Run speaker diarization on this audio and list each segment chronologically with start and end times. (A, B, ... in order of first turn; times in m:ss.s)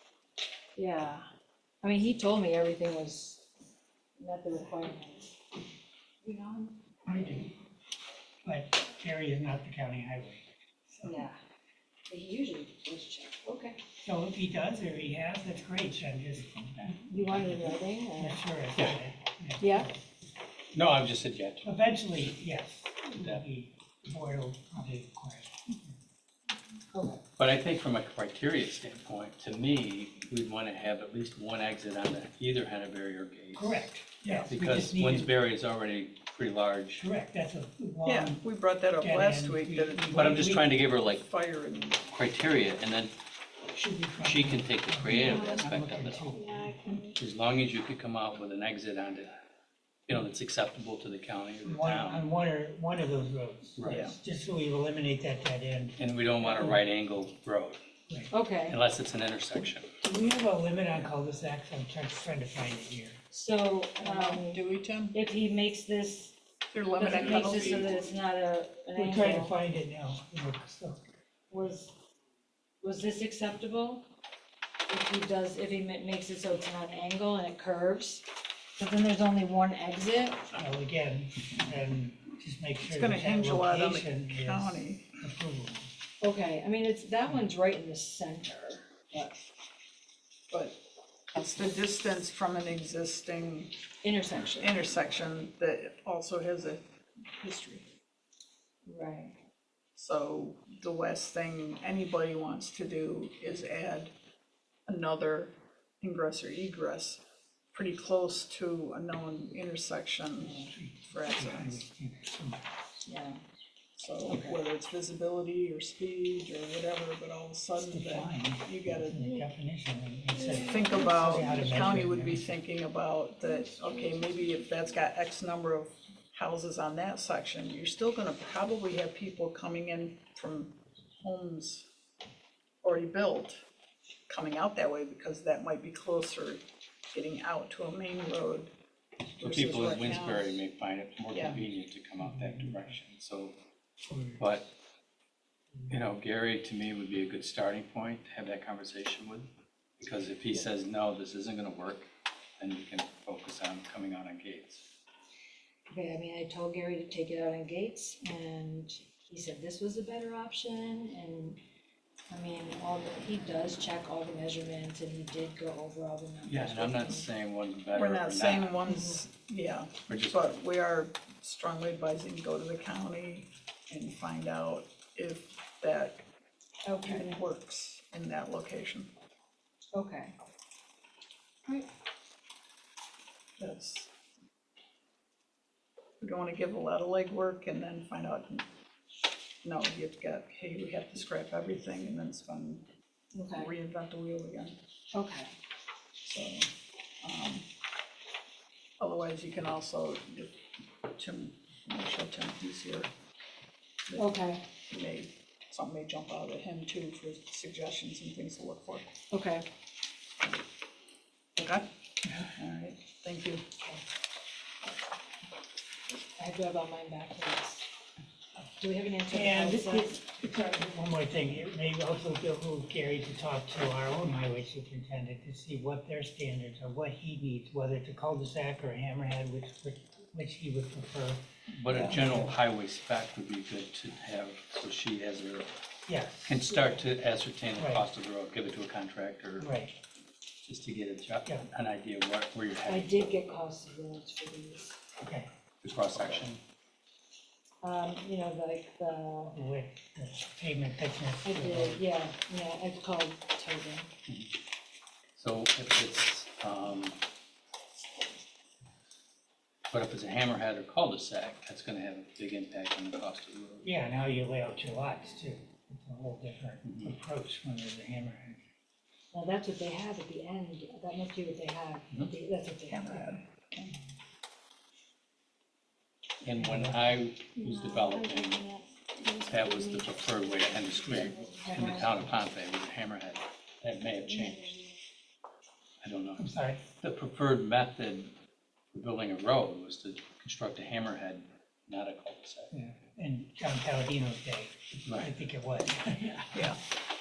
0:00.8-0:01.2 A
0:01.8-0:03.4 A
0:04.2-0:05.4 A
0:06.2-0:07.1 A
0:07.0-0:07.5 B
0:08.4-0:11.3 B
0:11.0-0:11.4 A
0:12.1-0:13.8 A
0:14.0-0:20.0 B
0:16.9-0:18.4 A
0:19.6-0:19.9 A
0:20.7-0:21.7 C
0:21.6-0:25.9 B
0:26.9-0:27.2 A
0:27.4-0:33.9 C
0:33.6-0:35.3 B
0:34.2-0:34.5 D
0:34.5-0:37.0 C
0:37.0-0:38.4 B
0:38.0-0:42.0 D
0:39.0-0:40.7 B
0:40.1-0:41.2 C
0:42.1-0:43.1 C
0:43.7-0:47.0 B
0:44.2-0:46.4 C
0:45.1-0:45.6 A
0:46.5-0:46.7 A
0:47.1-0:49.4 C
0:50.1-0:52.3 C
0:51.6-0:56.8 B
0:53.8-0:54.1 C
0:56.0-0:57.8 C
0:58.3-0:58.8 A
0:58.7-0:59.9 C
1:00.0-1:03.2 B
1:03.3-1:06.4 A
1:04.0-1:05.1 D
1:06.7-1:08.0 D
1:06.9-1:09.5 A
1:08.9-1:11.0 B
1:11.5-1:11.9 A
1:12.8-1:14.0 A
1:14.9-1:18.2 A
1:18.8-1:20.5 A
1:20.5-1:25.9 B
1:22.8-1:25.1 D
1:26.2-1:29.4 A
1:30.5-1:30.8 D
1:31.3-1:33.7 D
1:34.0-1:34.7 A
1:34.6-1:36.8 D
1:37.4-1:37.8 D
1:38.8-1:39.3 A
1:40.0-1:44.1 D
1:44.9-1:47.2 D
1:47.7-1:51.8 D
1:50.6-1:52.8 B
1:53.0-1:53.4 A
1:54.0-1:59.3 D
1:54.2-1:54.6 A
1:57.8-2:02.5 B
2:00.5-2:11.9 D
2:12.8-2:13.6 D
2:14.3-2:18.7 D
2:19.3-2:20.6 D
2:19.4-2:23.6 C
2:21.3-2:21.6 D
2:22.2-2:23.0 B
2:24.0-2:24.4 B
2:24.4-2:24.6 C
2:25.9-2:34.8 C
2:35.9-2:41.6 A
2:42.3-2:47.3 A
2:46.4-2:48.8 C
2:47.9-2:56.2 D
2:48.8-2:49.2 A
2:50.1-2:50.5 C
2:56.8-2:57.3 A
2:57.0-2:59.1 D
2:59.9-3:00.3 A
3:03.6-3:04.1 D
3:06.2-3:08.6 D
3:09.6-3:12.8 D
3:13.3-3:13.7 A
3:13.5-3:14.8 D
3:15.1-3:15.5 A
3:16.2-3:16.7 D
3:17.2-3:17.6 D
3:19.0-3:20.5 D
3:21.1-3:23.1 D
3:24.1-3:24.3 D
3:24.2-3:24.6 A
3:24.9-3:29.1 D
3:29.3-3:29.6 A
3:31.6-3:33.6 D
3:36.4-3:37.9 A
3:38.8-3:40.2 A
3:39.3-3:52.5 B
3:51.7-3:55.7 C
3:56.1-3:56.7 B
3:56.5-3:59.7 C
3:57.8-3:58.0 B
3:59.6-3:59.9 B
4:00.6-4:03.2 C
4:02.9-4:05.0 A
4:05.2-4:05.5 B
4:05.8-4:06.6 C
4:07.8-4:09.6 A
4:09.5-4:12.0 B
4:11.4-4:14.1 A
4:15.3-4:17.2 C
4:19.9-4:23.9 C
4:23.8-4:28.6 B
4:26.8-4:27.1 C
4:29.3-4:33.3 A
4:32.9-4:33.9 D
4:36.4-4:38.6 C
4:36.6-4:37.2 B
4:37.6-4:40.0 A
4:39.5-4:44.8 C
4:41.4-4:42.1 A
4:46.0-4:48.3 C
4:46.4-4:46.8 B
4:48.9-4:52.7 C
4:52.7-4:56.7 B
4:55.0-4:55.3 C